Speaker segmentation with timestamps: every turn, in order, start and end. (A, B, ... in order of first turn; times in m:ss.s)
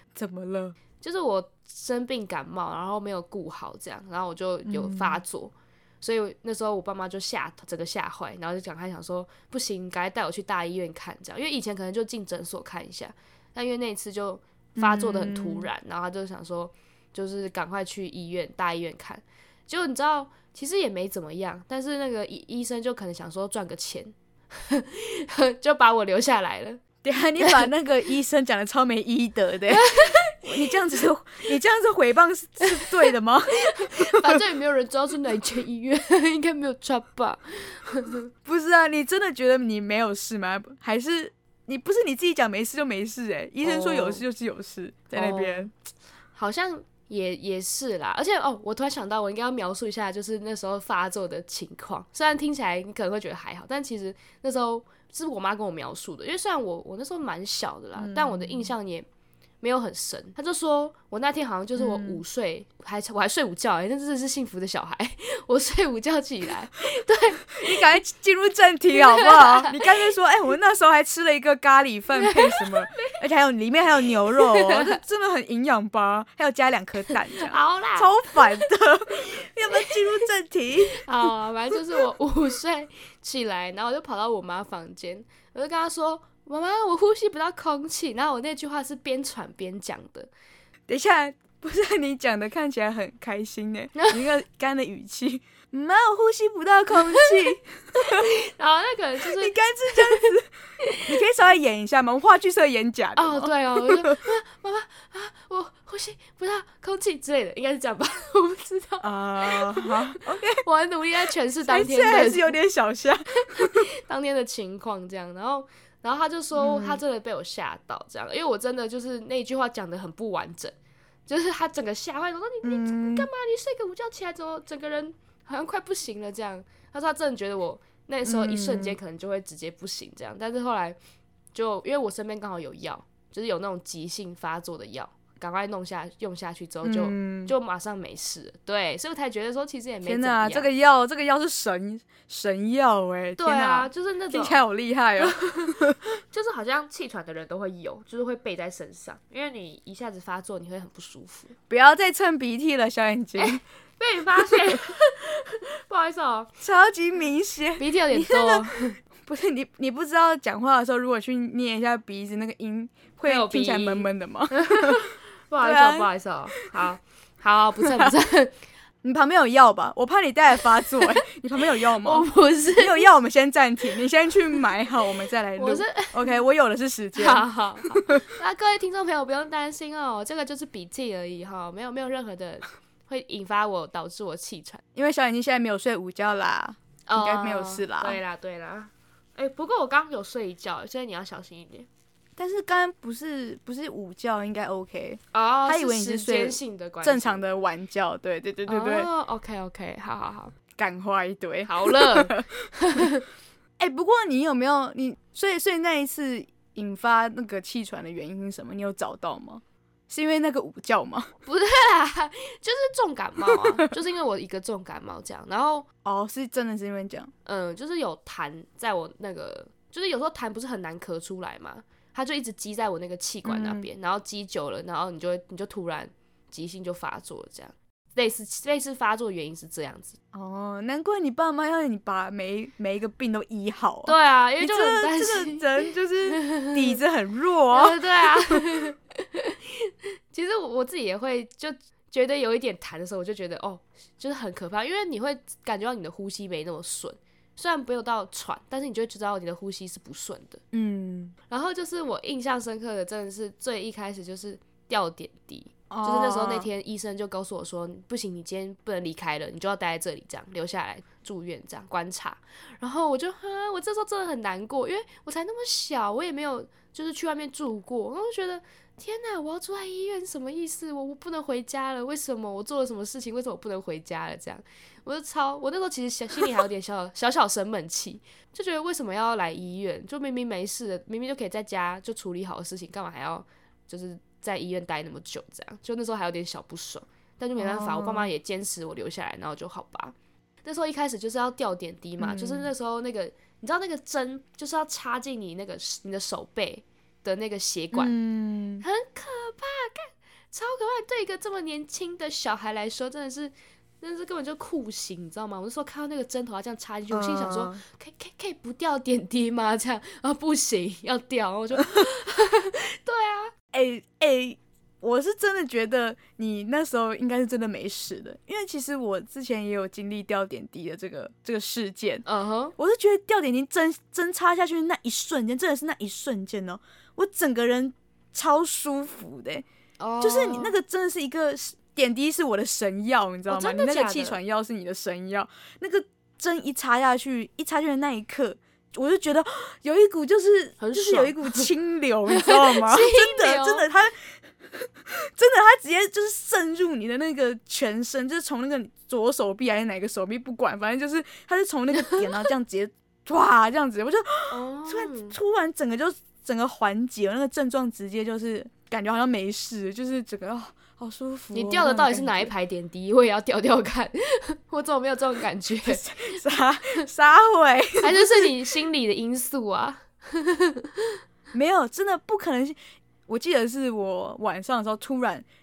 0:00.1-0:00.8 A
0:01.0-0:26.8 B
0:04.6-0:05.2 A
0:14.8-0:15.7 A
0:27.0-0:34.4 A
0:29.7-0:30.4 B
0:33.7-0:38.3 B
0:38.4-0:45.7 A
0:43.6-0:44.2 B
0:45.1-0:45.7 B
0:46.3-0:59.0 B
0:58.0-0:58.7 A
0:59.6-1:07.8 B
1:01.8-1:02.2 A
1:07.6-1:21.0 A
1:09.0-1:09.7 B
1:12.2-1:13.2 B
1:14.3-1:15.0 B
1:17.4-1:18.6 B
1:19.7-1:20.0 B
1:20.9-1:30.3 B
1:30.9-1:38.3 A
1:38.0-1:41.1 B
1:39.2-1:40.5 A
1:41.0-1:44.1 A
1:43.2-1:52.5 B
1:49.0-1:50.6 A
1:51.7-1:53.8 A
1:53.5-2:00.7 B
1:56.5-1:57.0 A
2:01.3-2:11.0 B
2:02.6-2:03.3 A
2:08.2-2:09.0 A
2:11.5-2:20.7 B
2:16.8-2:17.5 A
2:20.0-2:26.0 A
2:23.4-2:24.6 B
2:25.2-2:31.5 B
2:31.7-2:33.6 A
2:33.4-2:36.5 B
2:34.4-2:34.8 A
2:36.6-2:45.1 A
2:37.8-2:39.0 B
2:43.2-2:48.5 B
2:45.6-2:46.1 A
2:49.0-2:58.2 A
2:52.0-2:53.1 B
2:55.6-2:56.3 B
2:57.2-3:04.8 B
3:04.9-3:08.2 A
3:07.1-3:11.9 B
3:12.4-3:19.1 A
3:15.3-3:17.4 B
3:18.7-3:20.5 B
3:20.8-3:23.1 A
3:21.6-3:23.2 B
3:23.8-3:31.3 A
3:31.4-3:35.8 B
3:36.0-3:37.3 A
3:37.4-3:50.2 B
3:43.4-3:43.9 A
3:50.3-3:58.6 A
3:54.0-3:55.6 B
3:56.3-3:56.8 B
3:57.7-4:10.6 B
4:10.7-4:11.3 A
4:11.5-4:58.1 B
4:15.9-4:16.7 A
4:47.6-4:48.3 A
4:52.2-4:52.7 A
4:57.9-4:58.8 A
4:58.8-5:13.5 B
5:07.1-5:07.8 A
5:13.7-5:22.2 A
5:22.2-5:22.7 B
5:22.8-5:29.6 A
5:30.0-5:30.7 B
5:30.2-6:02.5 A
5:33.5-5:34.4 B
5:40.8-5:41.7 B
5:42.3-5:43.8 B
5:54.5-5:55.4 B
6:01.5-6:06.0 B
6:05.8-6:08.7 A
6:08.0-6:11.0 B
6:11.5-6:15.4 A